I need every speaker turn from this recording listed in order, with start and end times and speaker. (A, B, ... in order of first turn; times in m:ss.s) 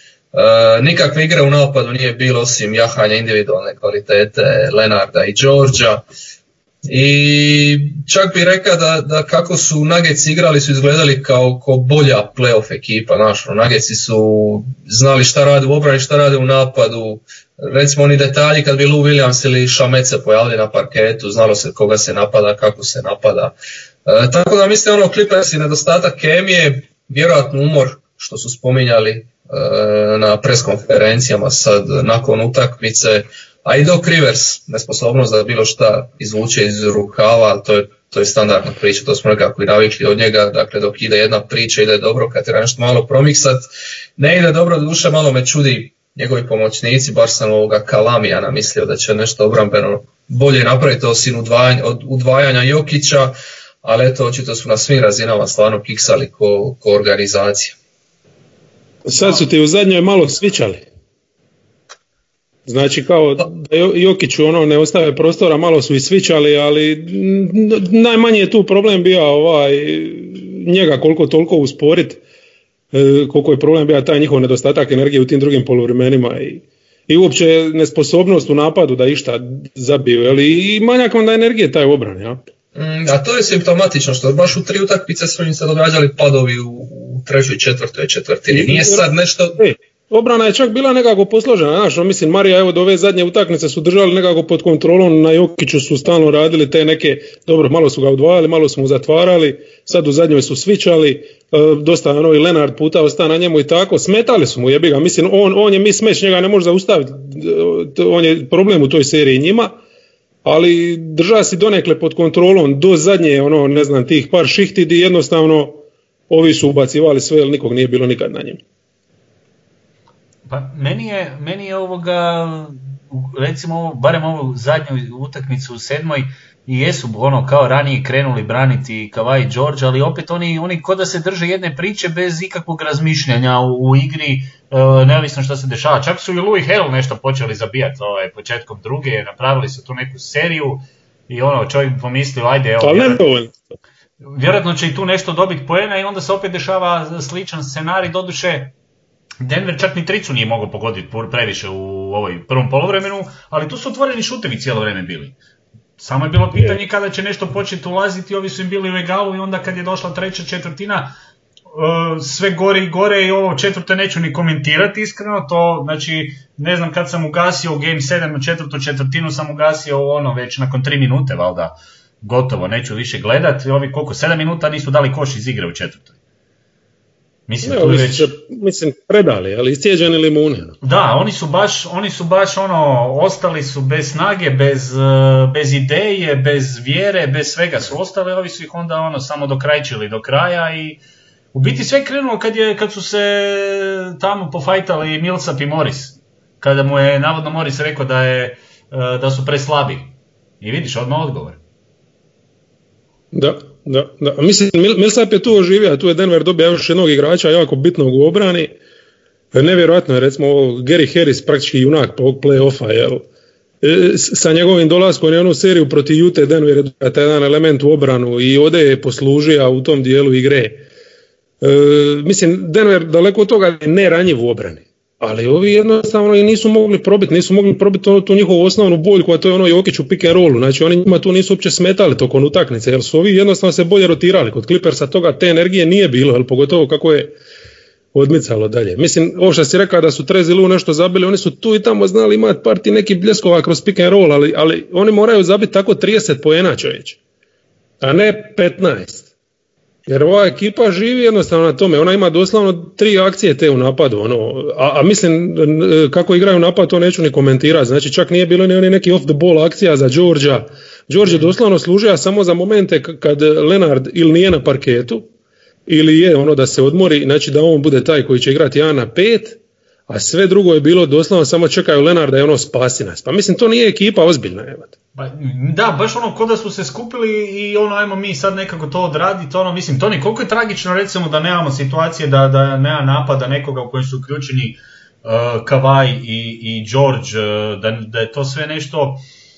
0:00.3-0:06.0 A
0:06.9-0:23.5 A
0:24.0-0:43.7 A
0:44.2-0:57.8 A
0:59.0-1:00.8 B
1:02.7-1:12.2 B
1:12.9-1:22.4 B
1:22.8-1:29.6 A
1:28.5-1:29.1 B
1:29.6-1:49.7 B
1:50.4-1:58.6 B
2:00.5-2:23.2 C
2:22.8-2:23.5 B
2:24.2-2:28.8 C
2:29.4-2:35.4 C
2:36.0-2:41.1 C
2:41.7-2:56.1 C
2:57.5-2:58.3 C
2:57.6-3:00.8 B
3:00.8-3:11.0 C
3:11.5-3:21.6 C
3:23.3-3:28.7 B
3:29.5-3:33.2 B
3:33.8-3:40.8 B
3:41.6-3:57.3 B
3:58.1-4:07.2 B
4:08.0-4:09.3 B
4:10.1-4:25.3 B
4:25.9-4:34.9 B
4:35.2-4:49.2 C